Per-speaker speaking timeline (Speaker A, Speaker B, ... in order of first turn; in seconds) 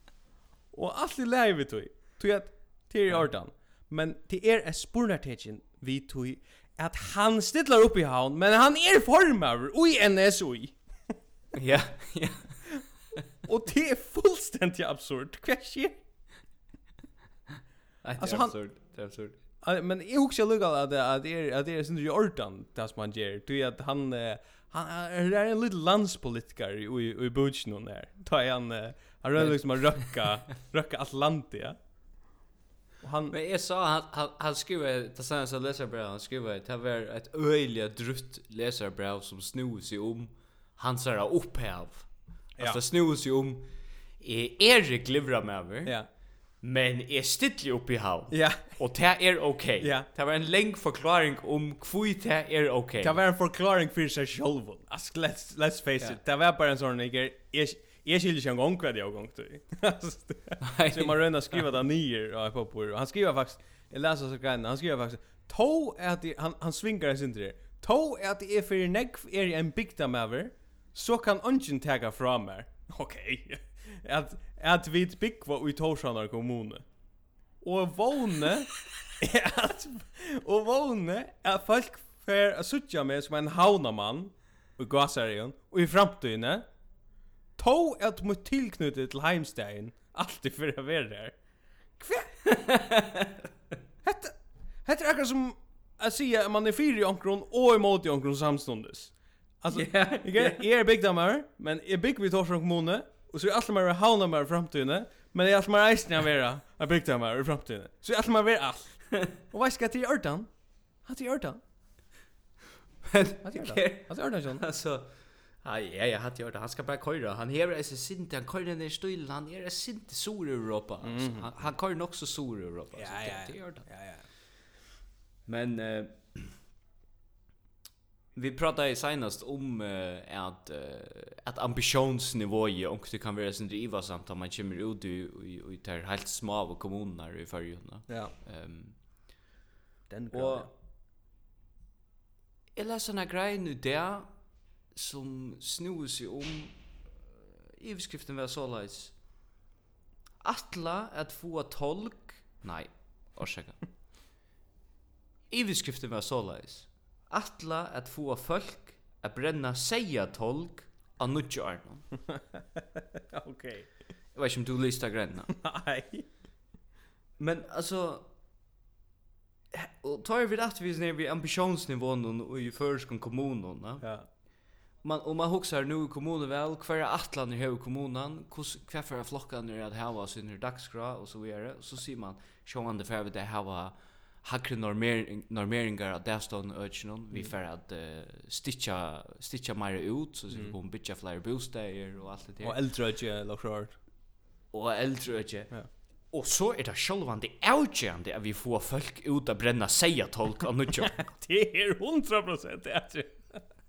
Speaker A: 0.7-10.8, 13.4-16.0, 18.2-18.6, 19.6-31.8, 33.0-33.3, 48.3-48.8, 49.8-50.1, 53.0-76.9, 77.6-86.7, 87.6-91.4, 92.0-92.4, 94.0-110.5, 111.0-111.6, 113.4-114.6, 121.0-121.5, 123.0-124.2, 138.1-138.3, 140.1-140.7, 162.3-163.9, 165.5-166.3, 174.0-174.3, 192.6-194.0, 201.0-203.7
Speaker B: 11.5-12.6, 18.0-19.4, 33.3-46.0, 46.6-53.2, 60.6-61.3, 92.5-93.4, 99.7-100.6, 113.0-115.1, 115.6-123.9, 125.5-126.6, 128.3-138.9, 140.3-140.7, 142.8-144.3, 144.9-146.8, 147.7-149.2, 150.4-153.8, 155.5-162.1, 164.3-165.5, 167.4-168.3, 169.7-174.1, 175.0-192.8, 194.7-195.8, 196.3-201.3